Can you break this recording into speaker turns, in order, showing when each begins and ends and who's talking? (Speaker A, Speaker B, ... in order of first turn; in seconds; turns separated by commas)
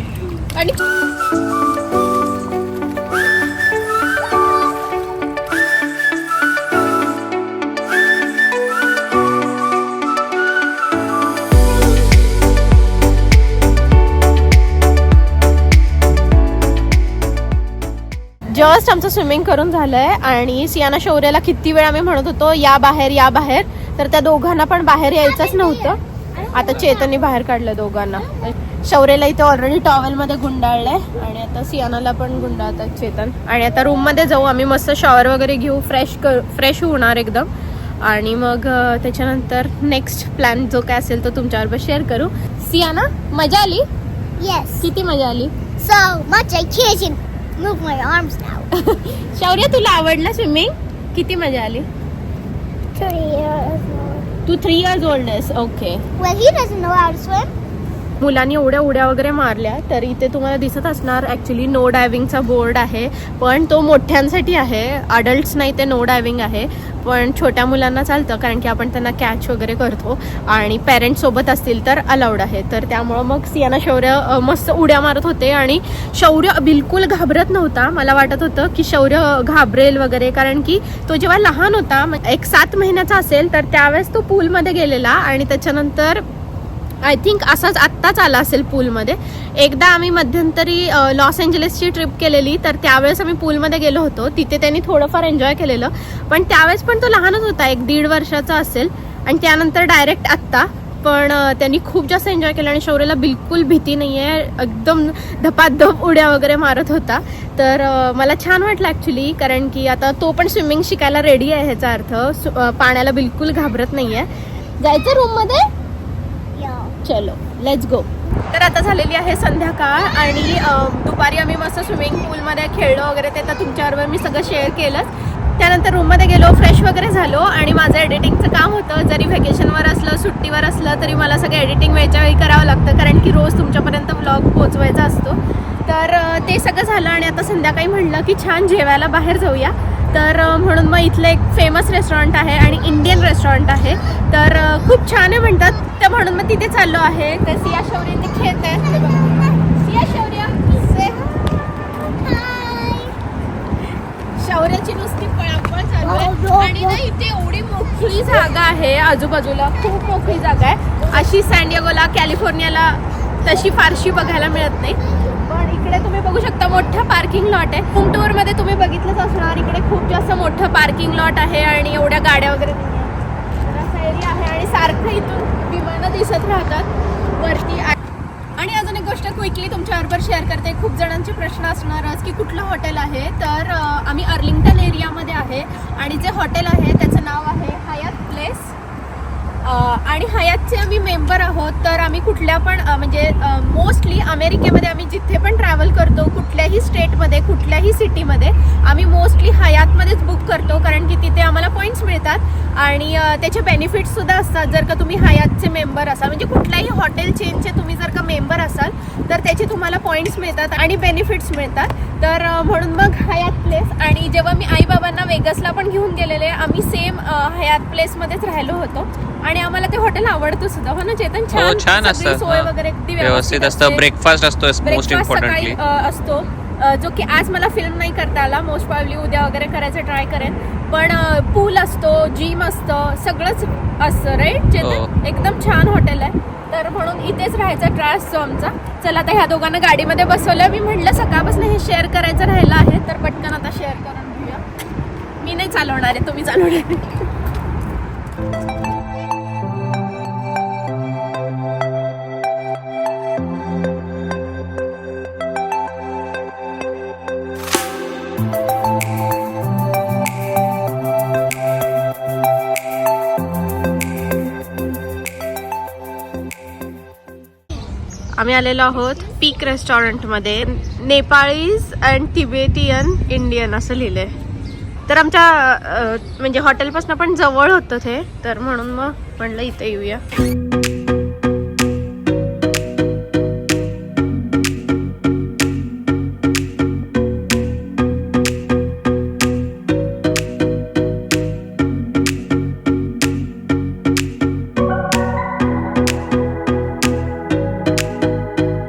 Speaker A: 18.5-37.5, Speaker B: 25.4-27.1, Speaker A: 38.0-43.9, Speaker B: 44.4-44.9, Speaker A: 44.8-45.6, Speaker B: 45.8-48.7, Speaker A: 48.7-51.9, Speaker B: 53.0-54.3, Speaker A: 54.5-56.0, Speaker B: 56.2-57.5, Speaker A: 58.2-86.2, Speaker A: 87.0-115.7, Speaker B: 116.5-117.0, Speaker A: 117.0-151.9, Speaker B: 152.2-153.0, Speaker A: 152.4-153.0, Speaker A: 154.4-178.0, Speaker B: 156.0-157.0, Speaker A: 178.6-188.8, Speaker A: 189.6-224.2, Speaker C: 221.6-222.7, Speaker C: 223.2-225.8, Speaker A: 224.8-244.6, Speaker C: 234.8-235.1, Speaker A: 245.4-247.3, Speaker A: 268.4-274.4, Speaker A: 275.1-280.2